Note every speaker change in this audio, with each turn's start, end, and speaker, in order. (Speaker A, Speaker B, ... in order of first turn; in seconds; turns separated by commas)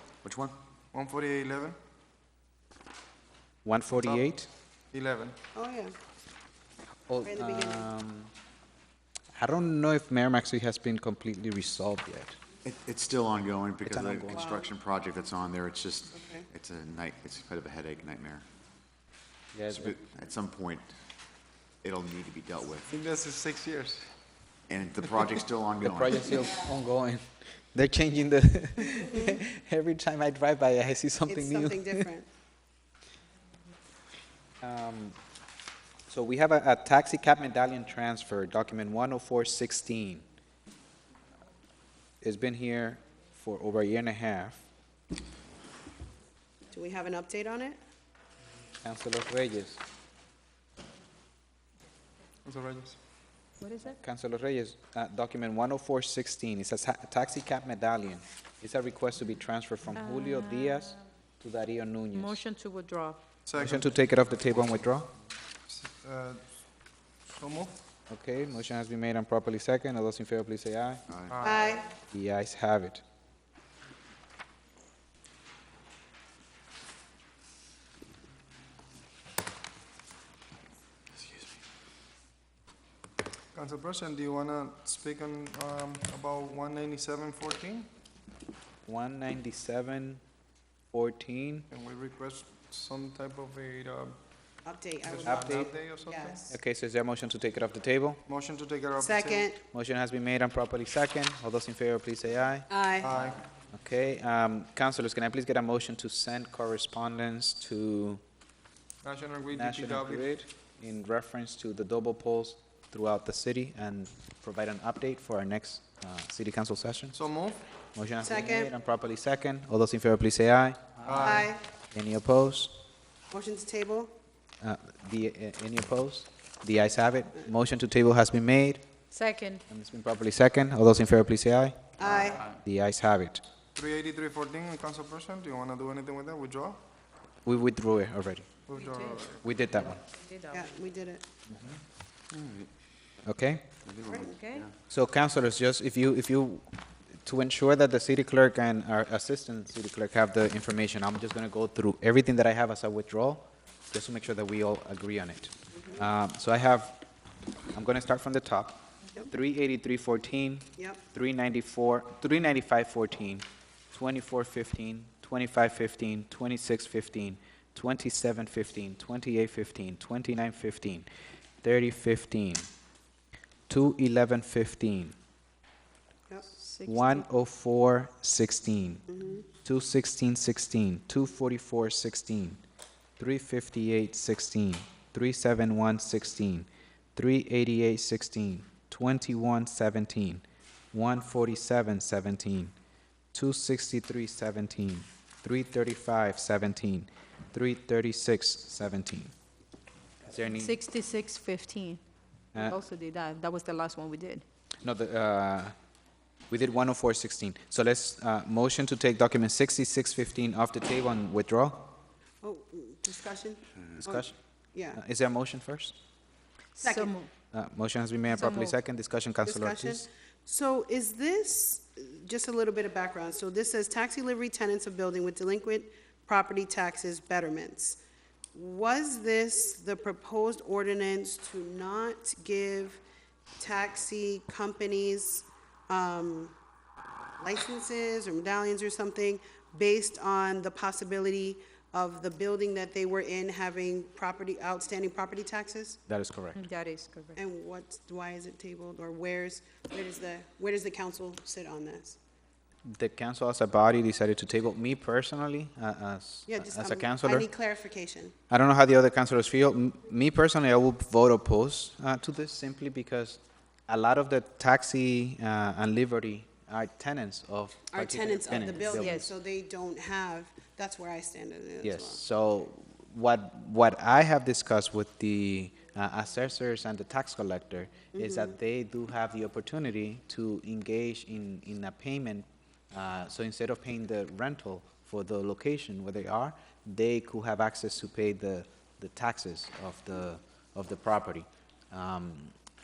Speaker A: 0.2-0.6, Speaker B: 0.9-1.8, Speaker C: 3.6-4.5, Speaker B: 3.9-4.3, Speaker B: 4.9-5.4, Speaker D: 5.5-5.9, Speaker C: 7.1-8.3, Speaker D: 7.2-7.9, Speaker C: 9.3-12.4, Speaker A: 12.6-18.4, Speaker C: 13.8-14.5, Speaker D: 14.3-14.7, Speaker C: 19.5-19.9, Speaker A: 19.7-20.9, Speaker A: 21.8-22.9, Speaker B: 22.9-24.1, Speaker A: 24.7-26.4, Speaker C: 25.8-32.1, Speaker D: 29.1-29.4, Speaker D: 31.3-32.3, Speaker C: 34.6-35.2, Speaker C: 36.1-40.2, Speaker C: 42.2-44.6, Speaker D: 46.7-47.8, Speaker C: 48.8-49.8, Speaker B: 52.5-53.0, Speaker E: 53.6-54.0, Speaker C: 53.9-62.4, Speaker E: 60.0-61.0, Speaker E: 62.1-63.2, Speaker B: 63.5-64.0, Speaker C: 63.6-65.1, Speaker B: 65.7-66.4, Speaker B: 67.3-67.8, Speaker C: 68.1-71.0, Speaker A: 71.1-71.4, Speaker B: 71.3-71.8, Speaker D: 71.4-71.9, Speaker C: 72.1-73.0, Speaker B: 83.5-87.9, Speaker C: 88.8-90.2, Speaker C: 90.9-91.7, Speaker B: 91.7-94.2, Speaker D: 94.6-96.6, Speaker B: 95.0-96.4, Speaker C: 95.2-95.7, Speaker C: 96.5-98.2, Speaker B: 98.2-99.5, Speaker D: 99.0-99.6, Speaker C: 99.7-102.7, Speaker D: 102.7-103.1, Speaker B: 103.0-103.4, Speaker C: 103.7-108.2, Speaker B: 109.0-110.4, Speaker C: 109.5-117.2, Speaker B: 117.1-117.6, Speaker C: 117.9-122.7, Speaker D: 118.2-118.7, Speaker B: 121.0-121.5, Speaker D: 121.2-121.6, Speaker D: 123.3-124.1, Speaker C: 124.6-128.8, Speaker E: 129.1-129.6, Speaker C: 129.7-133.4, Speaker D: 132.0-132.5, Speaker B: 133.8-136.8, Speaker C: 137.5-138.5, Speaker B: 138.7-139.4, Speaker E: 138.8-139.4, Speaker C: 139.4-140.0, Speaker E: 140.1-140.7, Speaker D: 140.5-141.2, Speaker C: 141.5-141.7, Speaker A: 142.4-142.7, Speaker C: 143.2-143.7, Speaker A: 143.9-144.7, Speaker D: 144.1-144.3, Speaker E: 144.3-144.7, Speaker C: 144.9-146.7, Speaker C: 147.2-157.0, Speaker C: 157.7-171.1, Speaker C: 171.6-172.7, Speaker C: 173.7-175.2, Speaker E: 176.6-177.2, Speaker C: 176.9-179.1, Speaker D: 179.1-179.4, Speaker C: 179.6-182.6, Speaker C: 183.2-192.7, Speaker C: 193.3-199.3, Speaker C: 200.2-200.8, Speaker E: 200.5-202.0, Speaker E: 202.6-204.4, Speaker C: 204.8-205.8, Speaker C: 206.5-211.9, Speaker D: 212.4-215.0, Speaker C: 214.0-214.4, Speaker C: 214.9-215.9, Speaker E: 216.8-217.3, Speaker D: 216.8-217.2, Speaker C: 217.5-220.1, Speaker E: 218.3-218.8, Speaker D: 219.4-228.0, Speaker D: 228.5-233.0, Speaker D: 233.6-236.6, Speaker D: 237.4-246.0, Speaker C: 246.1-246.6, Speaker E: 246.6-247.4, Speaker D: 247.3-252.2, Speaker C: 252.8-257.5, Speaker D: 256.5-258.3, Speaker C: 258.5-269.2, Speaker D: 267.9-272.2, Speaker E: 268.9-269.3, Speaker C: 271.8-292.5, Speaker D: 278.1-278.5